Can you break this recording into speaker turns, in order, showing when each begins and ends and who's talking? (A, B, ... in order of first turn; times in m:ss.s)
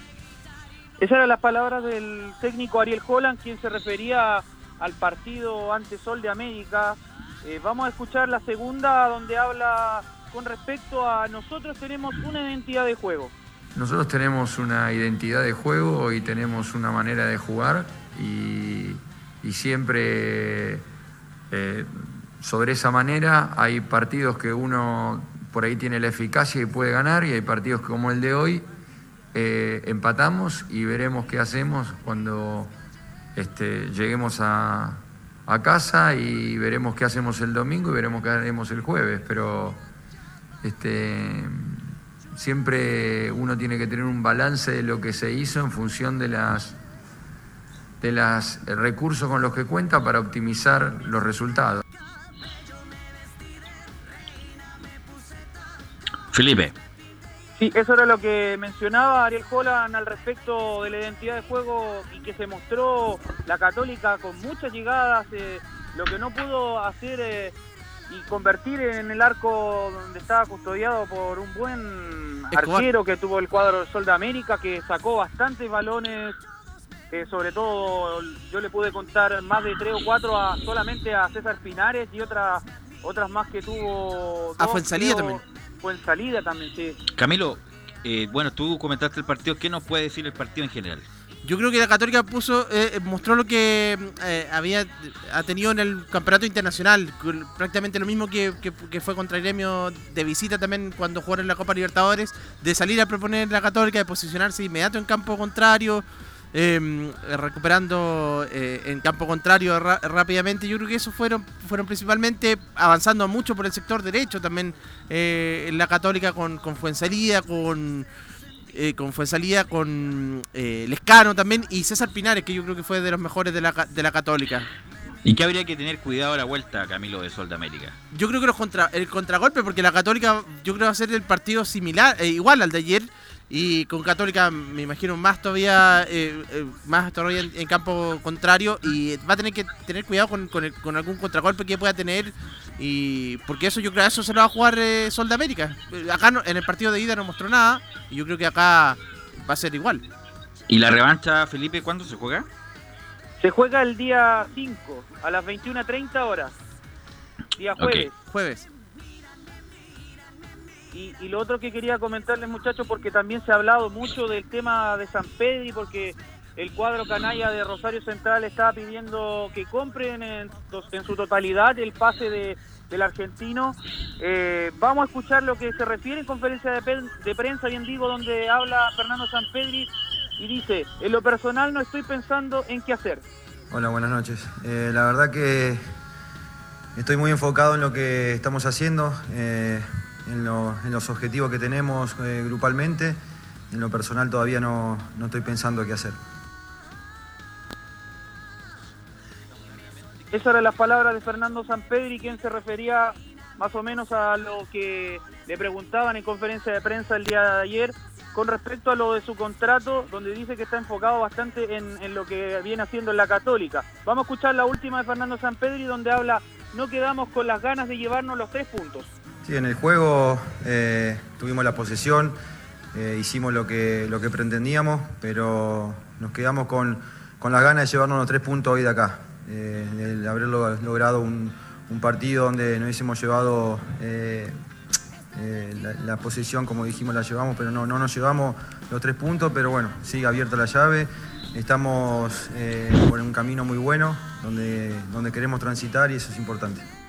0:01.0-0:13.3 A
0:13.7-0:20.8 B
0:21.5-0:28.6 B
0:29.3-0:32.7 B
0:33.4-0:39.8 B
0:40.6-0:46.8 B
0:48.0-0:51.8 B
0:56.3-0:56.7 C
0:57.6-1:07.6 A
1:08.1-1:16.4 A
1:12.6-1:12.8 D
1:17.1-1:27.0 A
1:24.6-1:25.4 D
1:27.1-1:31.0 C
1:31.4-1:58.1 D
1:58.7-2:04.7 D
2:05.2-2:08.0 C
2:08.1-2:30.0 D
2:30.7-2:32.5 C
2:33.4-2:36.6 A
2:37.6-2:38.1 A
2:37.8-2:38.1 C
2:38.2-2:38.6 D
2:40.9-3:03.2 A
3:03.7-3:05.8 E
3:07.0-3:13.2 E
3:13.7-3:16.2 E
3:20.3-3:39.1 A
3:39.4-3:42.4 E
3:42.9-3:54.6 E
3:55.4-4:06.9 E